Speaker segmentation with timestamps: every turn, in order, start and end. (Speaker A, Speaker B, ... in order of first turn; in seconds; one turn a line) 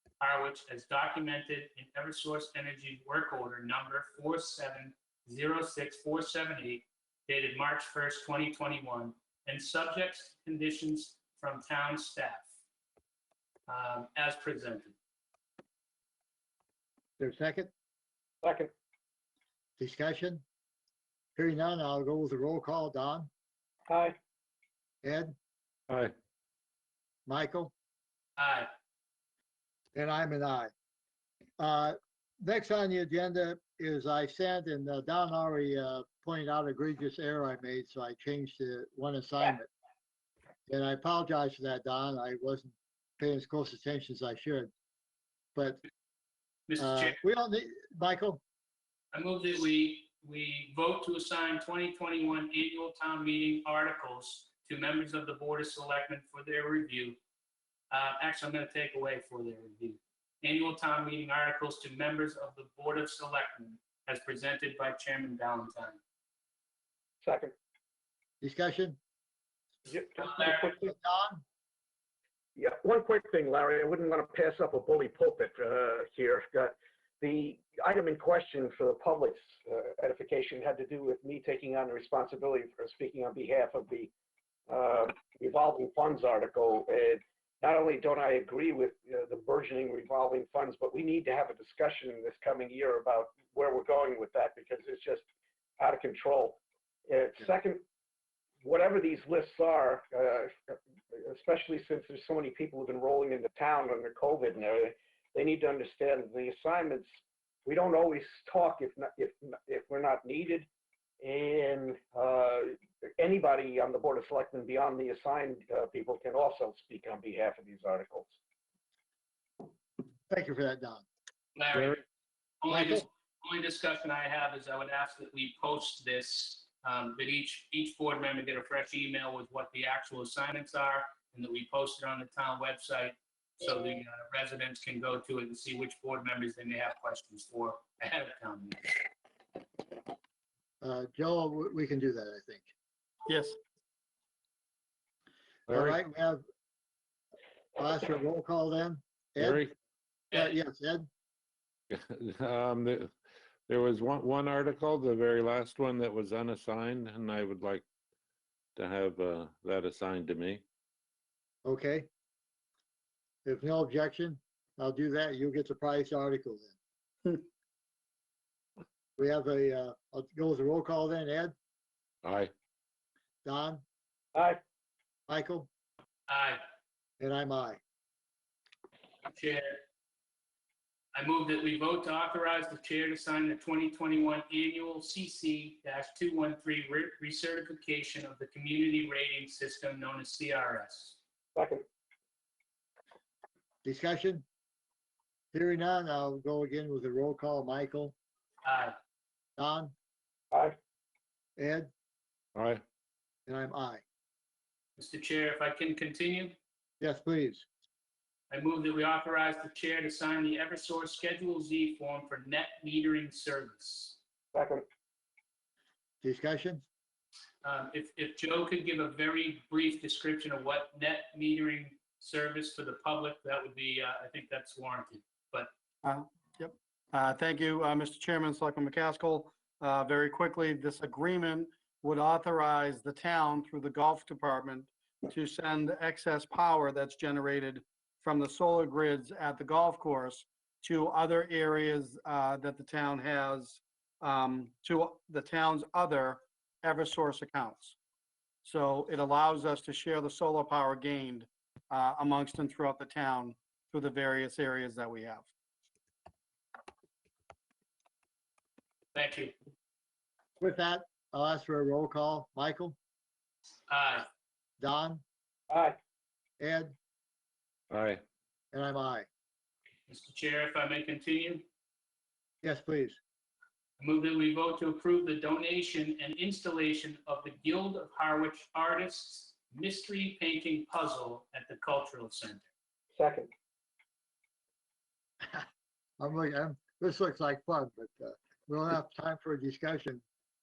Speaker A: 0.2-12.5
Speaker A: 13.7-14.9
Speaker B: 17.2-17.7
Speaker C: 18.4-18.7
Speaker B: 19.8-20.4
Speaker B: 21.4-23.3
Speaker C: 23.9-24.2
Speaker B: 25.0-25.4
Speaker B: 27.3-27.7
Speaker A: 28.4-28.7
Speaker B: 29.9-30.7
Speaker B: 31.6-39.7
Speaker B: 40.7-44.7
Speaker B: 45.5-45.8
Speaker A: 46.7-47.1
Speaker B: 46.8-48.4
Speaker A: 49.1-57.2
Speaker A: 57.9-66.0
Speaker C: 67.2-67.5
Speaker B: 68.4-69.0
Speaker C: 69.9-70.9
Speaker A: 70.2-70.6
Speaker B: 70.7-71.4
Speaker C: 72.6-84.1
Speaker C: 84.7-95.2
Speaker C: 95.8-97.8
Speaker C: 98.6-107.1
Speaker C: 107.7-110.7
Speaker C: 111.2-118.4
Speaker B: 120.3-121.0
Speaker A: 121.5-122.0
Speaker A: 122.6-138.8
Speaker B: 122.7-123.0
Speaker B: 140.8-142.7
Speaker D: 143.3-143.6
Speaker B: 145.7-146.4
Speaker E: 145.7-146.0
Speaker B: 147.8-149.6
Speaker E: 149.4-149.7
Speaker B: 150.3-151.1
Speaker E: 151.9-153.1
Speaker E: 153.7-157.8
Speaker E: 158.8-160.6
Speaker B: 161.7-162.1
Speaker B: 163.4-166.7
Speaker B: 169.2-171.6
Speaker E: 172.2-172.5
Speaker B: 173.4-173.8
Speaker C: 174.3-174.6
Speaker B: 175.3-175.7
Speaker A: 176.3-176.6
Speaker B: 177.2-177.8
Speaker A: 179.2-179.8
Speaker A: 181.2-191.2
Speaker C: 191.6-191.8
Speaker B: 193.8-194.5
Speaker B: 195.5-198.2
Speaker A: 198.7-198.9
Speaker B: 199.6-199.9
Speaker B: 201.6-201.9
Speaker E: 202.6-202.8
Speaker B: 203.5-204.0
Speaker A: 205.0-206.6
Speaker B: 207.0-207.7
Speaker A: 208.5-214.2
Speaker C: 214.5-214.8
Speaker B: 216.2-216.8
Speaker A: 217.6-225.7
Speaker D: 226.0-248.0
Speaker D: 248.6-255.5
Speaker A: 259.1-259.5
Speaker B: 260.6-263.0
Speaker A: 263.9-264.3
Speaker B: 264.8-265.2
Speaker C: 265.7-266.0
Speaker B: 266.6-266.9
Speaker E: 267.9-268.2
Speaker B: 268.7-269.3
Speaker A: 270.1-271.6
Speaker B: 272.6-273.2
Speaker A: 274.0-282.6
Speaker C: 283.2-283.5
Speaker B: 286.2-290.2